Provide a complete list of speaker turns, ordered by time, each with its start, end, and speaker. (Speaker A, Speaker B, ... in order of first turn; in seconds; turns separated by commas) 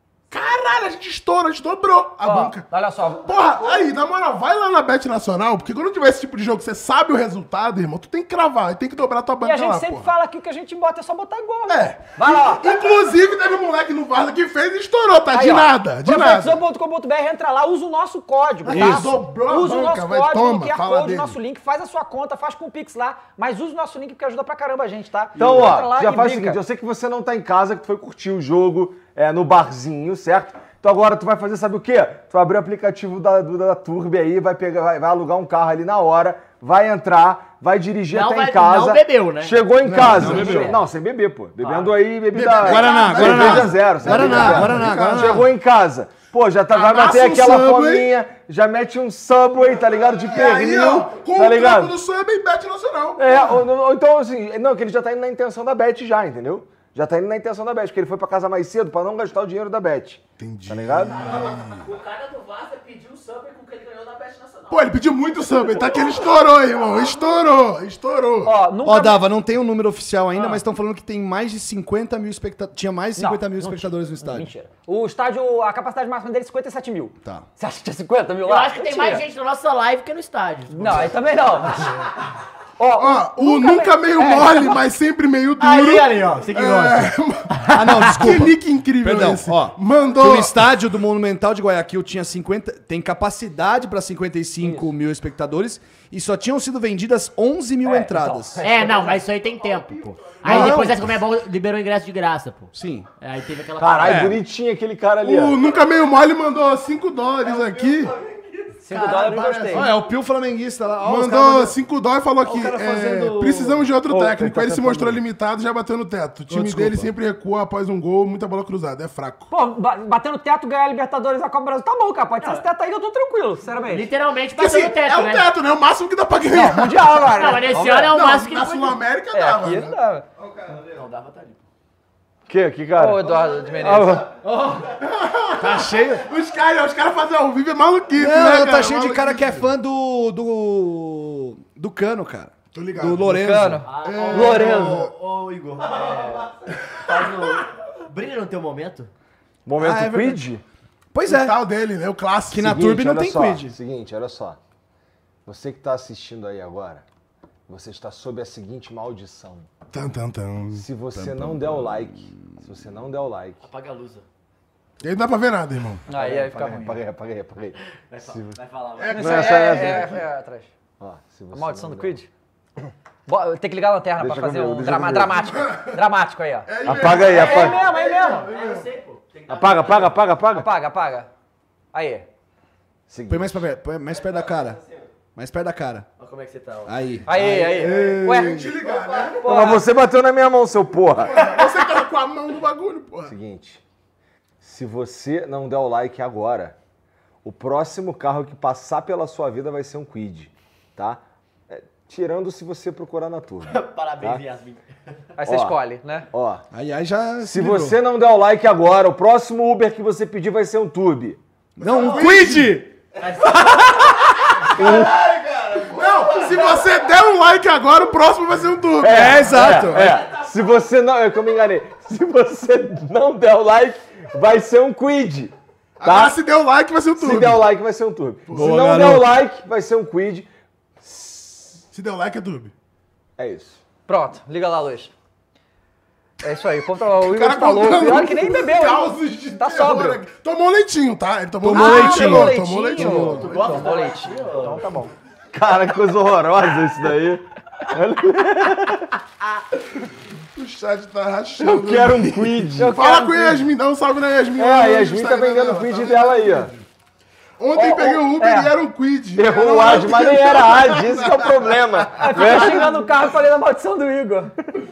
Speaker A: 0.3-2.6, Speaker B: 2.2-3.3, Speaker A: 3.1-10.1, Speaker B: 9.4-12.7, Speaker A: 11.7-16.6, Speaker B: 15.3-26.6, Speaker A: 18.6-21.4, Speaker C: 18.7-19.2, Speaker D: 25.4-52.0, Speaker E: 38.1-39.6, Speaker C: 39.9-40.7, Speaker A: 39.9-40.7, Speaker B: 40.0-40.8, Speaker E: 41.6-41.9, Speaker A: 42.3-45.4, Speaker C: 42.6-45.5, Speaker A: 46.7-48.1, Speaker A: 50.3-53.6, Speaker D: 53.2-61.4, Speaker A: 60.4-61.8, Speaker F: 61.2-66.3, Speaker A: 64.7-68.5, Speaker B: 68.4-69.2, Speaker C: 68.8-74.5, Speaker B: 73.2-79.2, Speaker E: 78.4-81.1, Speaker B: 80.7-82.0, Speaker B: 82.8-84.8, Speaker A: 83.0-90.7, Speaker E: 85.6-88.2, Speaker C: 87.7-98.6, Speaker B: 97.8-98.6, Speaker E: 98.6-104.3, Speaker F: 98.8-100.5, Speaker A: 100.4-101.0, Speaker C: 100.5-100.9, Speaker C: 102.7-103.1, Speaker D: 103.8-105.6, Speaker C: 104.0-104.4, Speaker A: 105.2-108.1, Speaker F: 107.4-108.9, Speaker B: 108.8-109.9, Speaker E: 108.9-109.4, Speaker A: 108.9-110.0, Speaker C: 109.7-111.7, Speaker A: 111.0-119.5, Speaker C: 112.4-113.8, Speaker D: 114.0-115.2, Speaker C: 116.5-117.1, Speaker B: 119.5-124.1, Speaker E: 123.9-125.5, Speaker A: 124.5-130.0, Speaker B: 126.5-128.1, Speaker E: 127.3-129.0, Speaker B: 129.3-130.2, Speaker F: 130.3-131.1, Speaker E: 130.8-131.6, Speaker D: 132.5-134.3, Speaker B: 132.9-134.2, Speaker F: 133.3-133.8, Speaker E: 134.4-134.8, Speaker A: 135.0-139.7, Speaker C: 135.6-136.2, Speaker C: 138.1-143.9, Speaker A: 142.7-143.4, Speaker B: 143.3-145.0, Speaker E: 143.8-149.1, Speaker A: 144.0-145.1, Speaker F: 145.8-146.6, Speaker D: 149.7-150.6, Speaker C: 149.8-150.4, Speaker C: 151.1-151.6, Speaker A: 151.2-152.8, Speaker C: 152.5-153.7, Speaker D: 152.5-154.6, Speaker D: 155.4-157.0, Speaker D: 157.7-159.7, Speaker A: 159.9-160.8, Speaker D: 160.7-163.6, Speaker C: 161.2-161.8, Speaker E: 163.6-164.2, Speaker A: 165.0-166.0, Speaker B: 166.1-167.0, Speaker D: 166.1-168.6, Speaker E: 168.1-169.2, Speaker A: 169.0-170.2, Speaker B: 169.1-170.7, Speaker D: 169.2-170.2, Speaker D: 171.0-172.2, Speaker B: 171.5-172.3, Speaker B: 173.2-178.4, Speaker D: 174.2-175.4, Speaker A: 175.4-176.0, Speaker A: 176.7-178.8, Speaker D: 176.8-177.8, Speaker E: 177.2-180.2, Speaker D: 179.5-180.7, Speaker B: 180.5-181.3, Speaker B: 181.9-182.2, Speaker D: 183.1-183.6, Speaker C: 183.3-184.8, Speaker F: 184.1-185.1, Speaker C: 185.3-186.1, Speaker E: 186.2-186.9, Speaker C: 186.8-188.7, Speaker B: 187.2-188.6, Speaker D: 187.3-187.9, Speaker A: 188.3-189.4, Speaker F: 188.8-189.7, Speaker B: 189.4-189.9, Speaker D: 189.4-191.6, Speaker A: 191.2-193.3, Speaker D: 193.2-193.8, Speaker D: 194.6-196.8, Speaker D: 197.4-204.4, Speaker E: 203.7-204.8, Speaker B: 205.4-206.3, Speaker D: 205.4-205.8, Speaker D: 206.3-206.6, Speaker C: 206.7-208.0, Speaker D: 207.4-211.4, Speaker C: 211.8-212.9, Speaker A: 211.8-212.8, Speaker E: 213.2-214.0, Speaker C: 213.4-214.5, Speaker D: 214.8-215.2, Speaker F: 214.8-216.8, Speaker A: 215.9-219.5, Speaker D: 219.0-226.4, Speaker C: 219.1-220.2, Speaker A: 226.0-227.7, Speaker D: 227.2-230.5, Speaker A: 228.5-228.9, Speaker C: 228.5-229.3, Speaker D: 231.0-231.8, Speaker A: 231.9-232.7, Speaker D: 233.4-233.8, Speaker B: 234.1-235.1, Speaker B: 236.4-240.2, Speaker A: 237.2-243.7, Speaker C: 241.6-243.5, Speaker B: 241.7-244.4, Speaker E: 243.3-245.1, Speaker D: 245.5-249.1, Speaker A: 250.5-256.8, Speaker D: 251.6-253.0, Speaker B: 252.8-253.6, Speaker D: 254.5-256.7, Speaker A: 257.6-262.8, Speaker B: 257.7-258.7, Speaker D: 259.4-262.9, Speaker B: 262.2-264.5